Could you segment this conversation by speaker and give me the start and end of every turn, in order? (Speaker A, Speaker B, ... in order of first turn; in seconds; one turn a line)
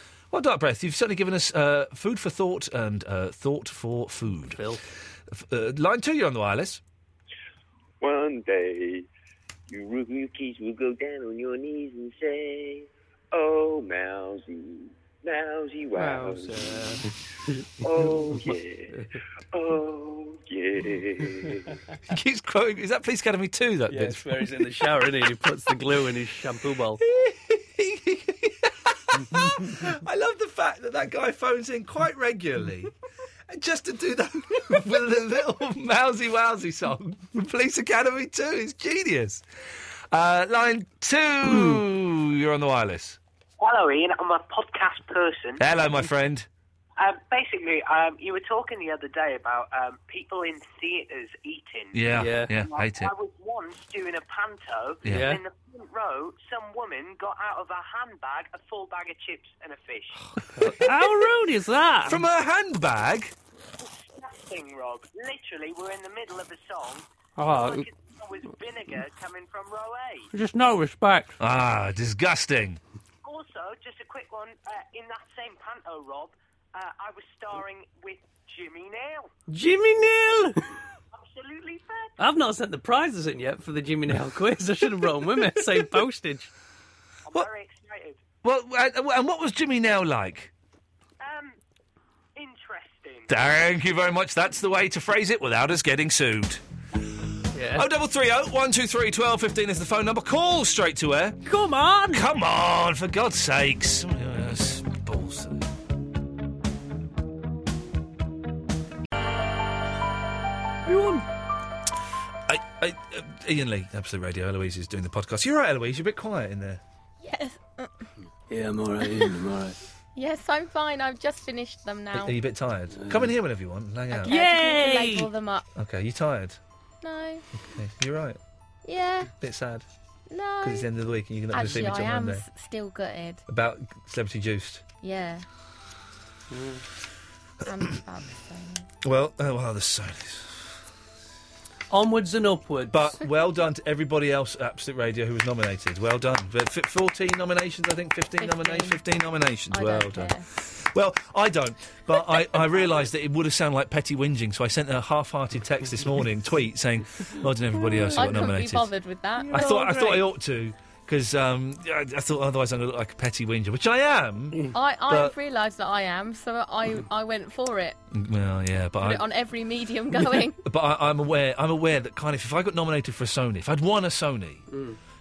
Speaker A: 0.3-4.7
Speaker B: 4.5-4.8
Speaker A: 5.3-6.8
Speaker C: 8.0-9.1
Speaker C: 9.7-17.0
Speaker B: 15.9-19.2
Speaker C: 17.8-19.0
Speaker C: 19.5-21.7
Speaker A: 22.1-24.8
Speaker B: 23.9-27.0
Speaker A: 27.0-32.9
Speaker A: 33.5-39.4
Speaker A: 40.1-43.2
Speaker B: 41.5-41.8
Speaker D: 43.6-45.6
Speaker A: 45.6-46.5
Speaker D: 47.0-52.0
Speaker A: 51.9-53.1
Speaker B: 52.1-52.5
Speaker D: 52.7-60.2
Speaker B: 55.1-55.4
Speaker B: 60.4-62.2
Speaker A: 60.6-61.0
Speaker A: 62.1-63.4
Speaker D: 63.8-70.3
Speaker B: 67.4-67.9
Speaker B: 70.3-71.3
Speaker A: 71.4-72.8
Speaker D: 73.2-79.3
Speaker B: 79.5-80.6
Speaker D: 81.1-82.2
Speaker B: 82.2-86.5
Speaker D: 87.3-88.2
Speaker A: 88.4-90.5
Speaker D: 91.2-91.6
Speaker D: 92.4-93.3
Speaker A: 93.3-96.6
Speaker B: 97.5-97.9
Speaker A: 97.8-101.4
Speaker B: 101.5-102.3
Speaker A: 102.1-105.7
Speaker B: 110.8-111.3
Speaker A: 112.5-116.8
Speaker E: 117.2-118.1
Speaker B: 118.5-119.8
Speaker E: 120.2-122.4
Speaker A: 122.1-124.3
Speaker B: 122.9-123.3
Speaker E: 124.1-125.7
Speaker B: 124.2-125.3
Speaker A: 125.8-126.6
Speaker E: 127.0-127.5
Speaker A: 127.7-128.4
Speaker E: 128.8-129.3
Speaker A: 129.4-129.9
Speaker E: 130.3-130.9
Speaker A: 130.6-132.4
Speaker E: 131.5-133.4
Speaker A: 133.5-134.8
Speaker E: 135.0-135.4
Speaker B: 136.5-136.8
Speaker E: 137.7-138.9
Speaker A: 139.0-140.8
Speaker B: 141.9-143.2
Speaker A: 142.9-158.9
Speaker E: 148.4-149.0
Speaker E: 149.7-150.5
Speaker B: 157.8-158.2
Speaker E: 158.1-160.2
Speaker B: 159.4-160.2
Speaker A: 159.5-165.3
Speaker E: 164.7-168.0
Speaker A: 168.1-169.3
Speaker E: 169.0-170.6
Speaker A: 170.6-174.7
Speaker B: 174.7-175.0